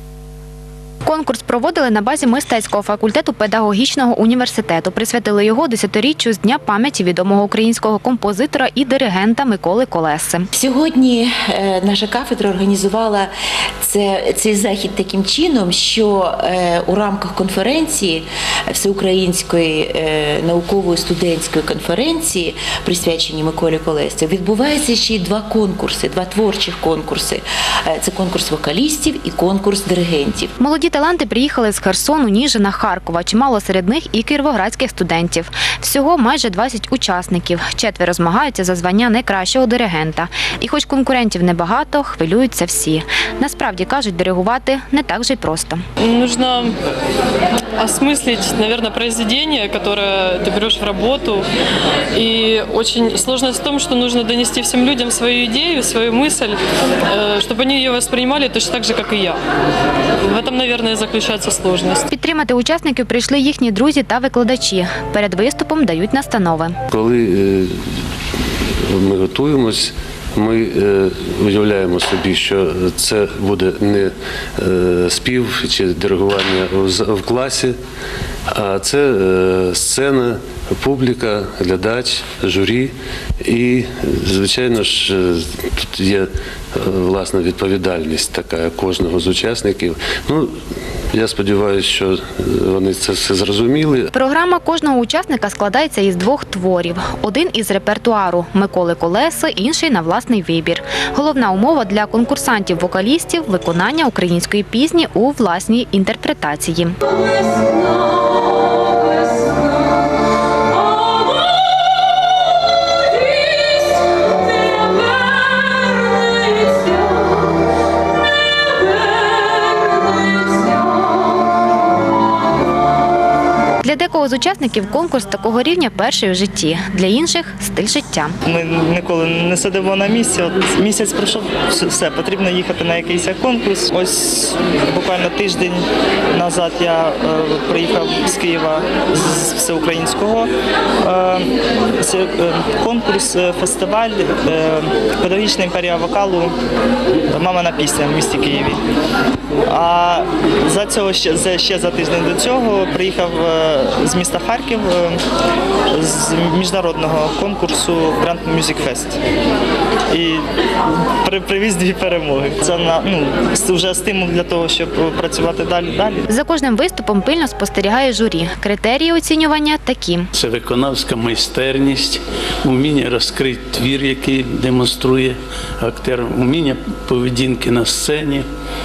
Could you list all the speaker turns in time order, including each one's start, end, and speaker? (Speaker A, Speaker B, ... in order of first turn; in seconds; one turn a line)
Speaker A: 1.0-10.5
Speaker B: 10.5-30.5
Speaker A: 30.6-45.8
Speaker C: 46.0-46.7
Speaker C: 47.8-51.4
Speaker C: 52.1-59.4
Speaker C: 60.2-62.0
Speaker A: 62.1-66.8
Speaker D: 66.9-67.8
Speaker D: 68.8-77.8
Speaker D: 78.5-90.5
Speaker D: 91.1-94.1
Speaker A: 94.1-107.0
Speaker A: 123.8-128.3
Speaker E: 128.4-140.5
Speaker E: 141.0-146.5
Speaker E: 147.3-148.8
Speaker E: 149.7-155.2
Speaker E: 155.9-159.2
Speaker E: 160.1-160.4
Speaker E: 161.2-166.2
Speaker A: 166.3-170.3
Speaker F: 170.3-178.4